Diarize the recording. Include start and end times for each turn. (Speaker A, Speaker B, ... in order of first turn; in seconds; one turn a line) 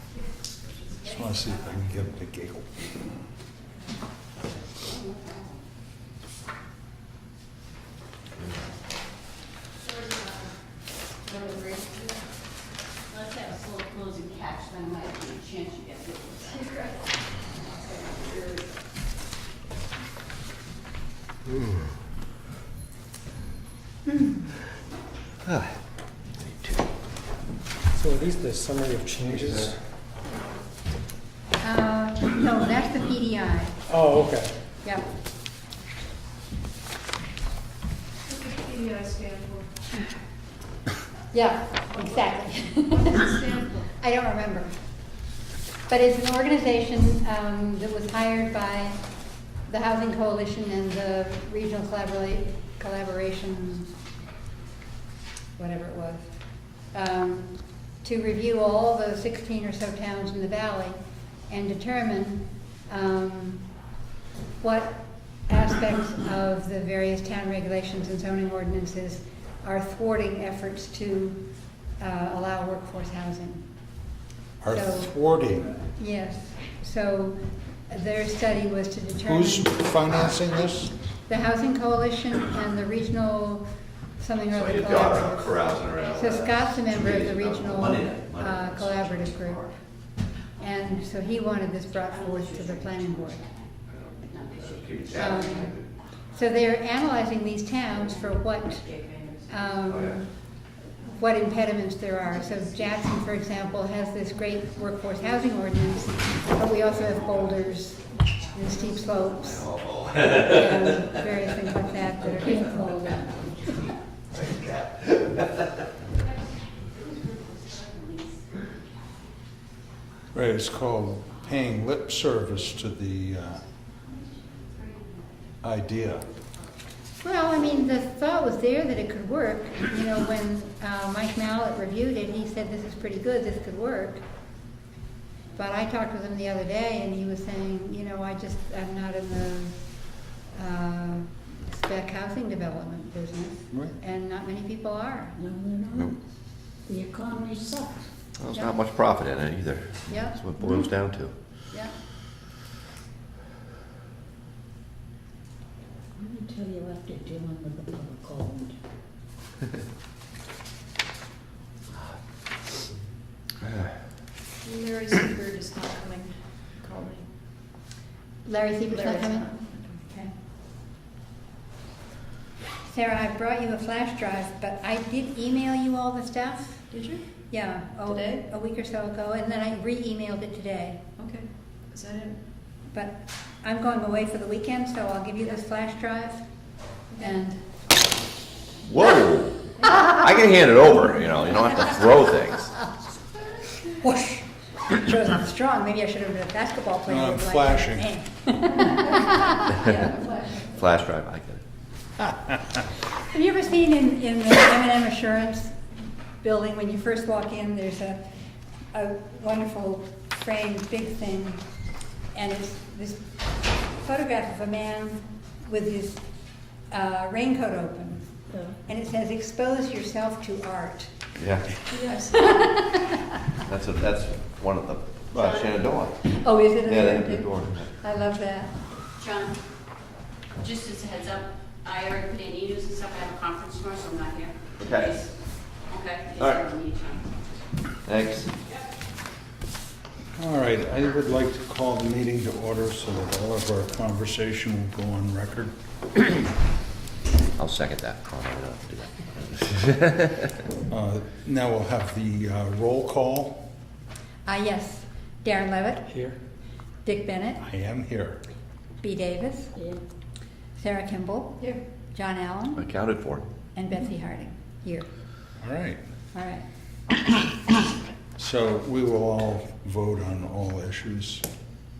Speaker A: 1.0-2.8
Speaker B: 4.8-5.5
Speaker B: 9.9-10.3
Speaker B: 11.2-12.2
Speaker B: 13.1-16.6
Speaker C: 16.6-16.9
Speaker B: 17.7-18.6
Speaker D: 25.4-25.8
Speaker D: 26.4-26.9
Speaker E: 27.9-29.7
Speaker F: 31.6-33.8
Speaker E: 33.9-34.5
Speaker C: 38.3-39.8
Speaker F: 41.3-43.4
Speaker C: 42.9-43.9
Speaker F: 43.9-44.7
Speaker F: 45.9-49.0
Speaker F: 49.7-53.9
Speaker F: 55.6-56.4
Speaker F: 56.9-63.7
Speaker F: 64.6-71.4
Speaker F: 72.0-73.7
Speaker A: 74.6-75.8
Speaker F: 74.7-75.1
Speaker F: 76.0-80.6
Speaker A: 79.2-80.9
Speaker F: 81.3-83.7
Speaker F: 84.2-89.6
Speaker D: 84.5-89.7
Speaker F: 90.6-93.4
Speaker B: 92.3-93.5
Speaker D: 93.9-95.8
Speaker B: 94.3-95.7
Speaker F: 95.2-95.7
Speaker F: 96.3-98.9
Speaker B: 98.9-99.5
Speaker F: 99.5-100.3
Speaker D: 99.9-100.2
Speaker F: 101.1-109.7
Speaker D: 109.6-110.5
Speaker F: 110.2-112.7
Speaker G: 112.2-113.5
Speaker D: 114.3-115.4
Speaker B: 117.5-118.7
Speaker A: 120.3-123.6
Speaker A: 125.6-126.3
Speaker F: 127.2-134.2
Speaker F: 135.6-139.8
Speaker F: 140.5-145.4
Speaker A: 143.7-144.0
Speaker G: 145.4-146.2
Speaker G: 146.9-148.1
Speaker D: 148.4-151.3
Speaker G: 156.2-158.8
Speaker C: 164.6-167.2
Speaker F: 168.4-170.3
Speaker C: 168.9-169.9
Speaker F: 172.9-176.9
Speaker C: 176.9-177.2
Speaker F: 177.5-181.0
Speaker C: 178.1-178.4
Speaker C: 181.2-182.4
Speaker F: 182.9-186.5
Speaker C: 187.2-187.4
Speaker F: 187.2-187.6
Speaker D: 188.8-192.7
Speaker F: 193.9-200.3
Speaker A: 197.1-198.1
Speaker C: 199.8-200.6
Speaker D: 200.7-201.6
Speaker F: 203.3-205.8
Speaker F: 206.4-208.2
Speaker F: 208.9-211.6
Speaker F: 212.3-213.2
Speaker F: 214.0-216.2
Speaker F: 216.9-218.3
Speaker G: 218.5-218.8
Speaker F: 218.8-221.2
Speaker D: 221.4-221.8
Speaker C: 221.9-222.8
Speaker F: 222.4-223.3
Speaker D: 223.7-226.2
Speaker F: 226.2-228.7
Speaker D: 226.8-227.9
Speaker B: 229.2-229.6
Speaker B: 230.6-235.3
Speaker D: 234.8-235.2
Speaker B: 235.9-237.3
Speaker D: 236.4-236.7
Speaker D: 238.1-238.5
Speaker A: 240.4-245.7
Speaker D: 247.6-250.5
Speaker A: 250.9-253.7
Speaker F: 254.5-256.1
Speaker E: 256.1-256.4
Speaker F: 257.1-257.6
Speaker A: 257.6-258.4
Speaker F: 259.0-259.7
Speaker G: 259.8-260.0
Speaker F: 260.8-262.8
Speaker D: 262.8-263.4
Speaker F: 263.8-265.1
Speaker A: 265.6-266.0
Speaker F: 266.3-266.6
Speaker A: 268.4-271.5